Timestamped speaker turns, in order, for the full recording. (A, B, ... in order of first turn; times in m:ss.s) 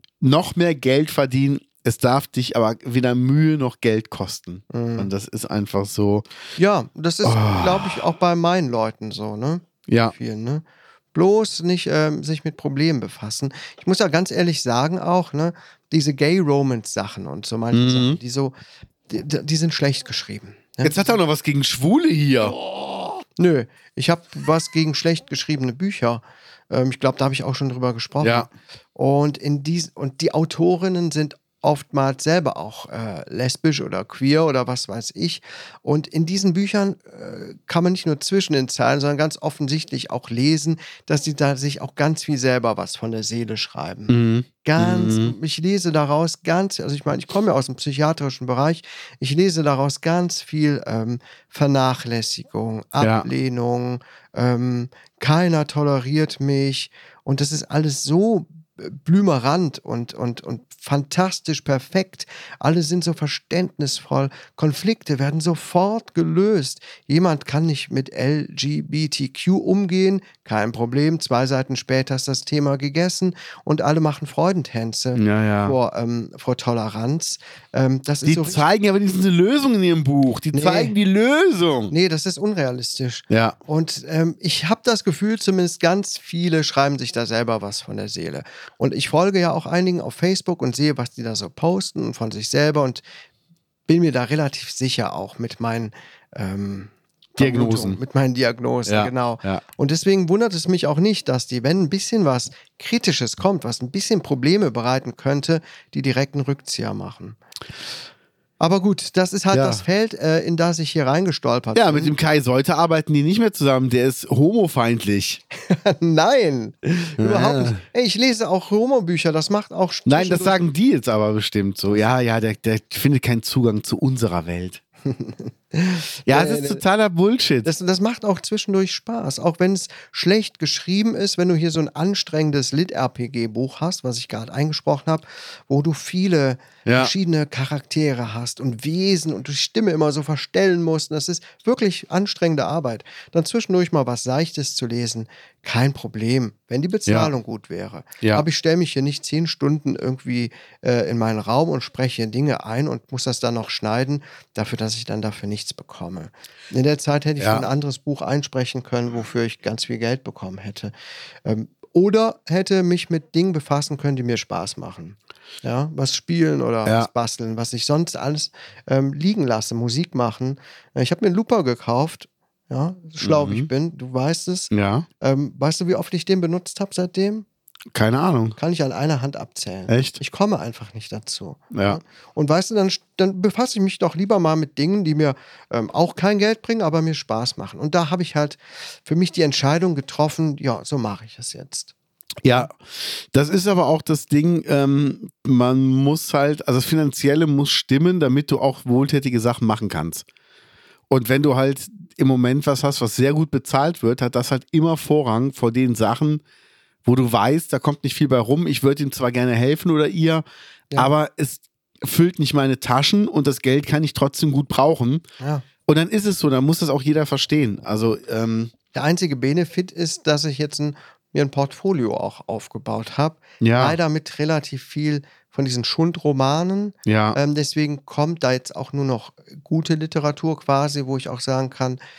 0:00.2-0:06.3 A
0:04.7-0:05.1 B
0:06.6-0:18.5 B
0:07.2-0:08.0 A
0:09.9-0:10.1 A
0:17.7-0:18.2 A
0:19.1-0:21.2 B
0:20.8-0:22.6 A
0:23.4-1:18.6 B
0:28.2-0:28.5 A
0:44.1-0:45.3 A
0:53.0-0:53.3 A
1:15.2-1:15.8 A
1:18.2-1:21.9 A
1:20.5-1:20.9 B
1:21.9-1:33.0 B
1:23.3-1:23.6 A
1:33.9-1:47.4 B
1:37.4-1:38.0 A
1:38.9-1:39.6 A
1:48.6-1:52.1 B
1:49.5-1:49.8 A
1:51.7-1:55.4 A
1:55.6-2:00.6 B
1:57.2-1:57.8 A
2:00.1-2:04.8 A
2:05.1-2:06.8 B
2:06.3-2:07.7 A
2:07.6-2:40.9 B
2:16.8-2:17.1 A
2:37.4-2:37.7 A
2:41.4-2:57.5 B
2:53.2-2:53.7 A
2:54.7-2:55.1 A
2:57.9-2:58.6 A
2:58.6-3:11.9 B
2:59.9-3:00.2 A
3:01.7-3:02.0 A
3:12.4-3:20.2 A
3:21.1-3:26.4 A
3:27.0-3:30.4 A
3:31.0-3:35.2 A
3:35.4-3:35.6 B
3:35.9-3:38.7 A
3:38.9-3:52.0 B
3:43.6-3:44.0 A
3:47.1-3:47.4 A